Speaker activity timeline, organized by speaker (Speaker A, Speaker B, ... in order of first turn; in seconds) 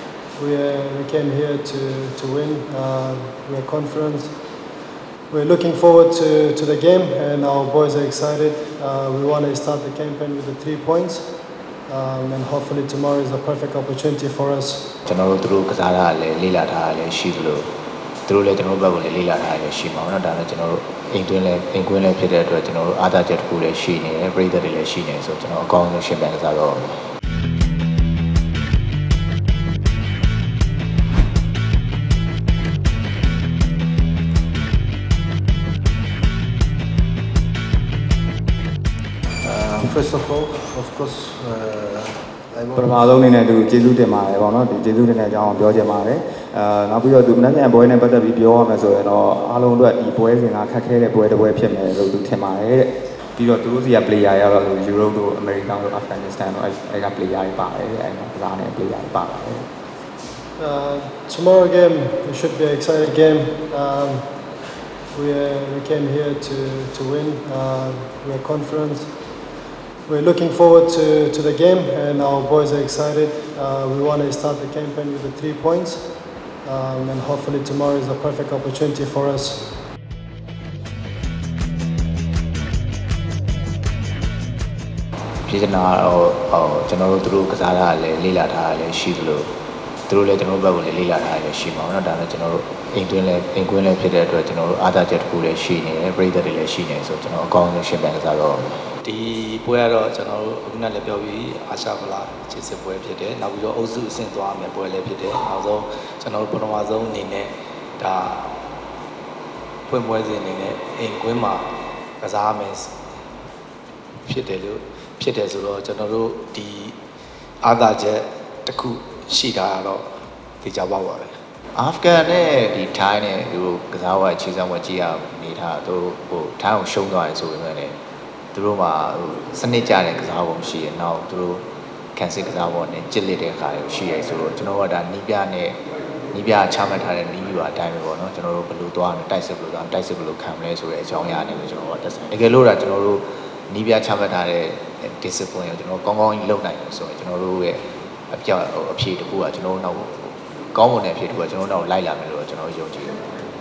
Speaker A: 0.3-4.5, 5.3-14.9, 60.5-64.6, 65.1-69.3, 70.0-79.8
Speaker B: 15.1-17.7, 18.3-27.1, 85.5-89.5, 90.1-98.9, 121.8-127.9, 128.5-135.8, 136.3-153.3
Speaker C: 39.4-43.1
Speaker D: 42.8-59.7
Speaker E: 99.0-108.6, 109.9-112.9, 114.2-117.0, 117.6-121.4